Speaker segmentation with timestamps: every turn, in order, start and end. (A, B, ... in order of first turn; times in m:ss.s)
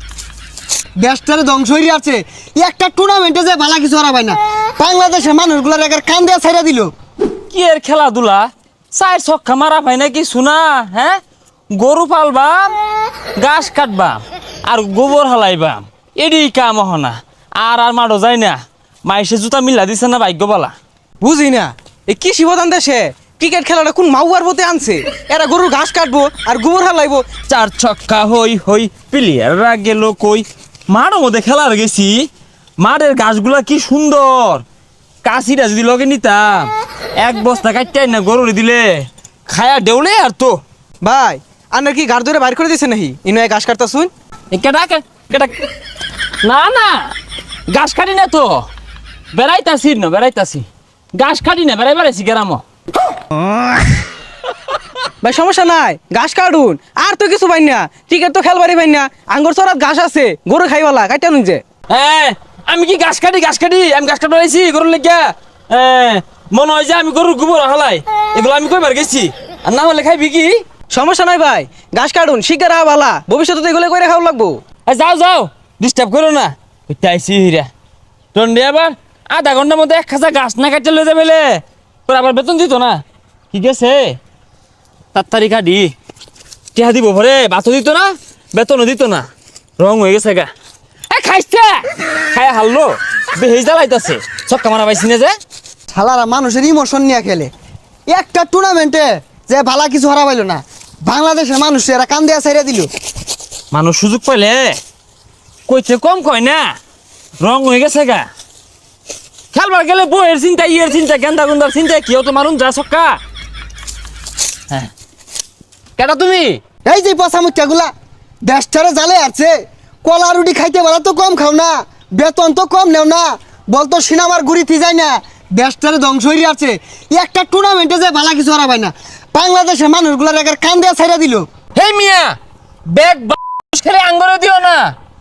0:01.0-0:06.9 A
0:07.5-0:11.2 B
0:11.7-0:12.8 B
0:13.4-0:20.8 B
0:21.2-0:27.3 C
0:27.5-0:32.3 B
0:32.8-0:34.6 B
0:35.2-0:40.6 B
0:41.0-0:44.1 C
0:44.5-0:45.0 B
0:46.4-0:47.1 B
0:47.7-0:48.6 B
0:49.3-0:52.6 B
0:55.2-1:01.6 C
1:01.9-1:10.6 B
1:10.9-1:14.6 C
1:14.9-1:17.7 B
1:18.3-1:24.2 B
1:25.1-1:25.9 B
1:26.7-1:29.3 B
1:29.8-1:30.5 B
1:31.1-1:35.3 B
1:35.9-1:37.5 A
1:38.1-1:42.9 A
1:43.7-1:44.8 B
1:45.7-1:46.8 B
1:47.4-1:48.3 B
1:49.5-1:53.2 B
1:56.0-1:56.6 B
1:56.8-1:57.9 A
1:58.4-2:11.5 A
2:11.8-2:12.4 B
2:12.9-2:14.9 B